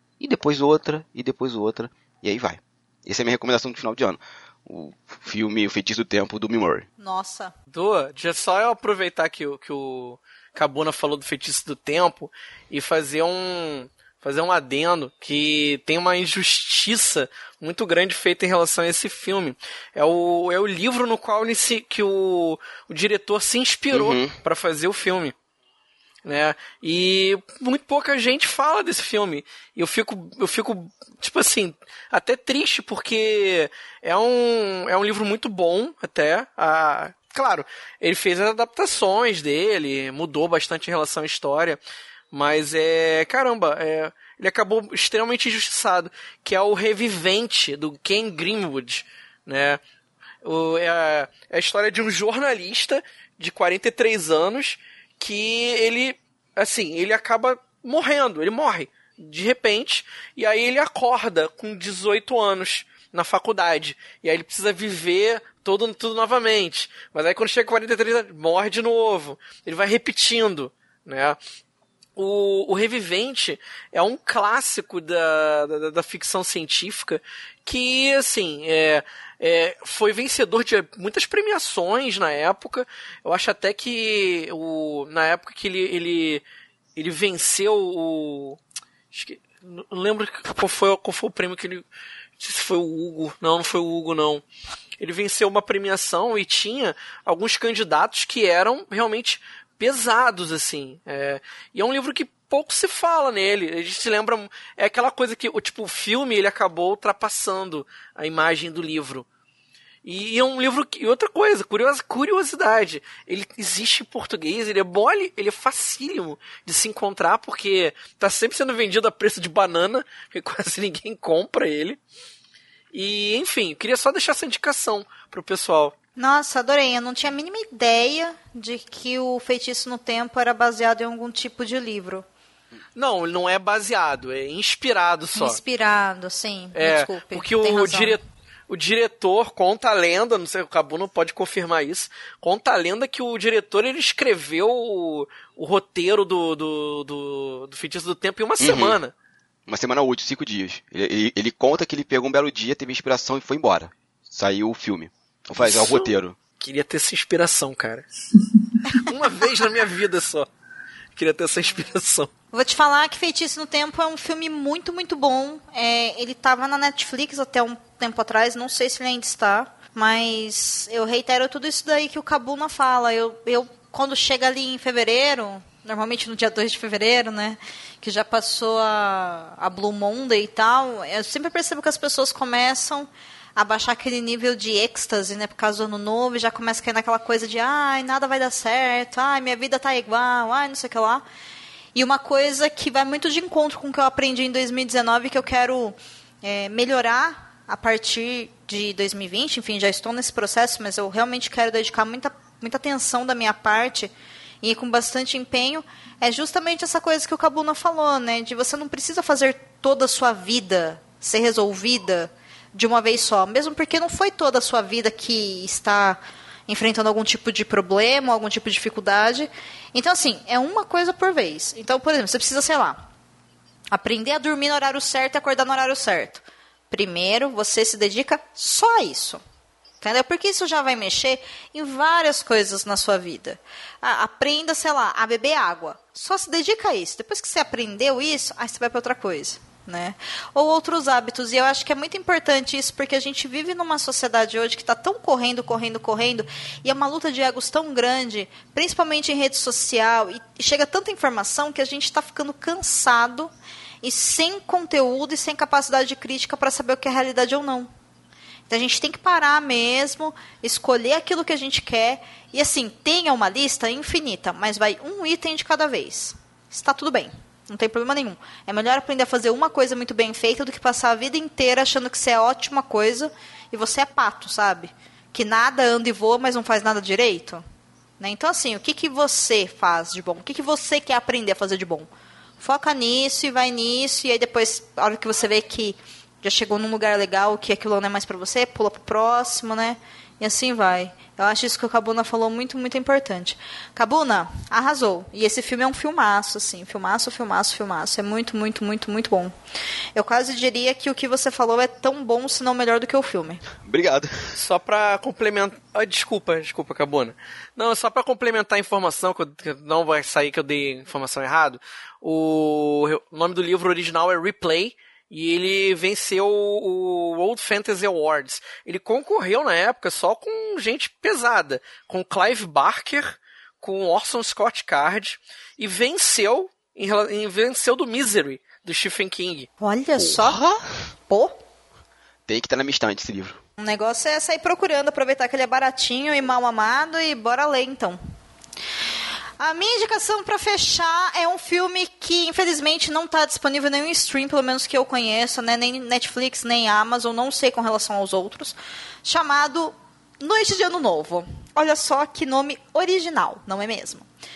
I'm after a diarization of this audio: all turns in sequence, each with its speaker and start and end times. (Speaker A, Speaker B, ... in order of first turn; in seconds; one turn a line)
Speaker A: 0.2-6.8
Speaker B: 7.0-7.5
Speaker C: 7.7-25.3
Speaker A: 23.9-24.3
Speaker C: 26.2-41.8
Speaker C: 42.3-49.8
Speaker C: 50.4-71.4
Speaker C: 72.2-86.4
Speaker C: 87.0-88.6
Speaker C: 89.1-91.8
Speaker C: 92.4-94.4
Speaker C: 95.0-109.2
Speaker C: 110.0-122.0
Speaker C: 122.9-125.9
Speaker B: 126.2-132.2
Speaker C: 132.9-135.6
Speaker B: 135.3-138.2
Speaker C: 136.8-149.1
Speaker A: 148.6-149.0
Speaker A: 149.7-156.4
Speaker C: 155.6-156.1
Speaker C: 156.6-158.0
Speaker C: 159.0-160.5
Speaker C: 161.2-162.3
Speaker B: 162.5-191.2
Speaker B: 191.9-223.0
Speaker B: 223.9-229.4
Speaker B: 230.0-253.5
Speaker B: 254.0-257.9
Speaker B: 258.7-277.6
Speaker B: 278.2-282.1
Speaker B: 282.6-299.5
Speaker B: 300.1-303.6
Speaker A: 303.8-304.4
Speaker C: 304.5-329.7
Speaker B: 329.8-330.6
Speaker A: 330.2-330.8
Speaker A: 332.5-333.6
Speaker B: 333.8-338.2
Speaker B: 339.6-354.2